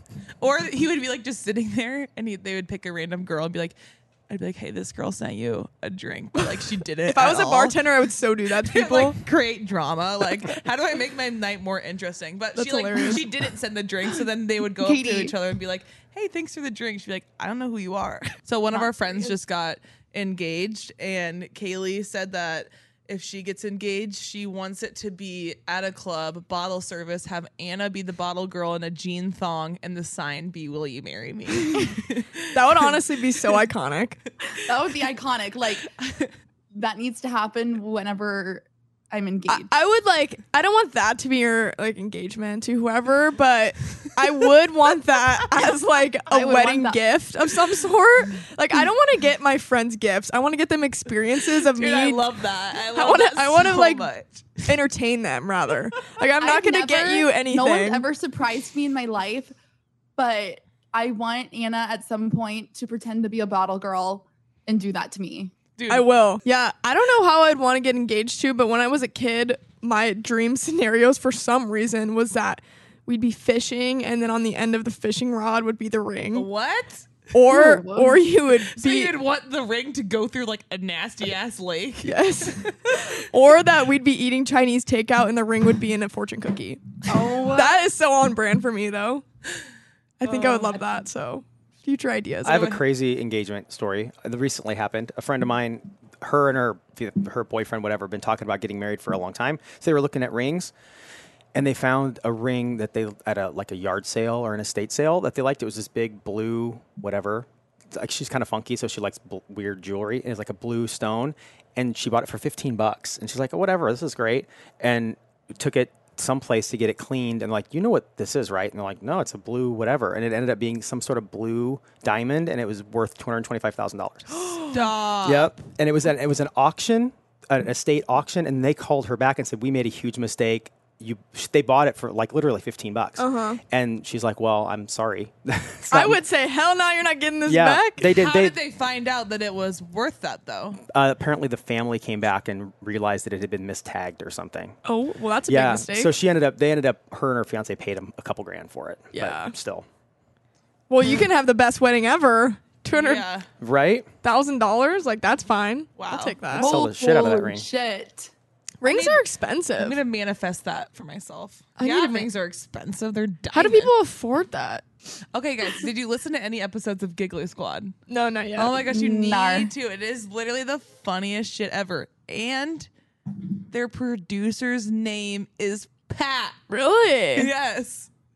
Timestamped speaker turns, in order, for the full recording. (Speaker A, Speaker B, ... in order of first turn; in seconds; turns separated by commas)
Speaker A: 0.4-3.8, Speaker A: 4.3-7.8, Speaker B: 7.1-9.2, Speaker A: 8.6-32.9, Speaker B: 12.6-13.2, Speaker C: 14.8-15.3, Speaker C: 18.7-19.3, Speaker B: 31.7-31.9, Speaker B: 32.5-34.2, Speaker C: 34.6-35.9, Speaker A: 36.0-36.3, Speaker C: 36.7-39.7, Speaker B: 39.5-52.3, Speaker C: 46.3-47.0, Speaker A: 51.6-54.7, Speaker B: 52.9-54.1, Speaker B: 54.6-58.1, Speaker C: 56.4-59.5, Speaker C: 60.2-65.5, Speaker A: 65.8-66.0, Speaker B: 65.9-76.5, Speaker A: 76.3-77.1, Speaker B: 77.3-79.2, Speaker C: 77.5-78.2, Speaker A: 78.7-83.1, Speaker B: 82.0-89.2, Speaker C: 87.1-87.8, Speaker B: 90.2-92.8, Speaker A: 90.2-90.8, Speaker D: 92.4-100.7, Speaker D: 101.5-124.6, Speaker A: 124.7-125.5, Speaker D: 125.2-136.2, Speaker B: 133.2-133.6, Speaker B: 135.9-138.1, Speaker D: 137.5-138.6, Speaker A: 138.1-140.8, Speaker D: 140.9-144.8, Speaker B: 144.8-146.1, Speaker D: 145.5-149.8, Speaker B: 149.1-149.5, Speaker B: 150.9-153.2, Speaker A: 152.9-153.5, Speaker D: 153.6-154.1, Speaker B: 154.2-156.7, Speaker A: 156.0-156.5, Speaker D: 156.5-157.6, Speaker C: 156.5-158.3, Speaker B: 158.8-160.0, Speaker A: 158.8-159.2, Speaker A: 159.8-163.9, Speaker B: 161.8-162.3, Speaker B: 163.5-164.8, Speaker A: 165.3-167.9, Speaker B: 168.1-168.8, Speaker A: 168.6-172.9, Speaker C: 168.8-169.7, Speaker A: 173.7-176.6, Speaker B: 176.7-177.5, Speaker A: 177.3-178.1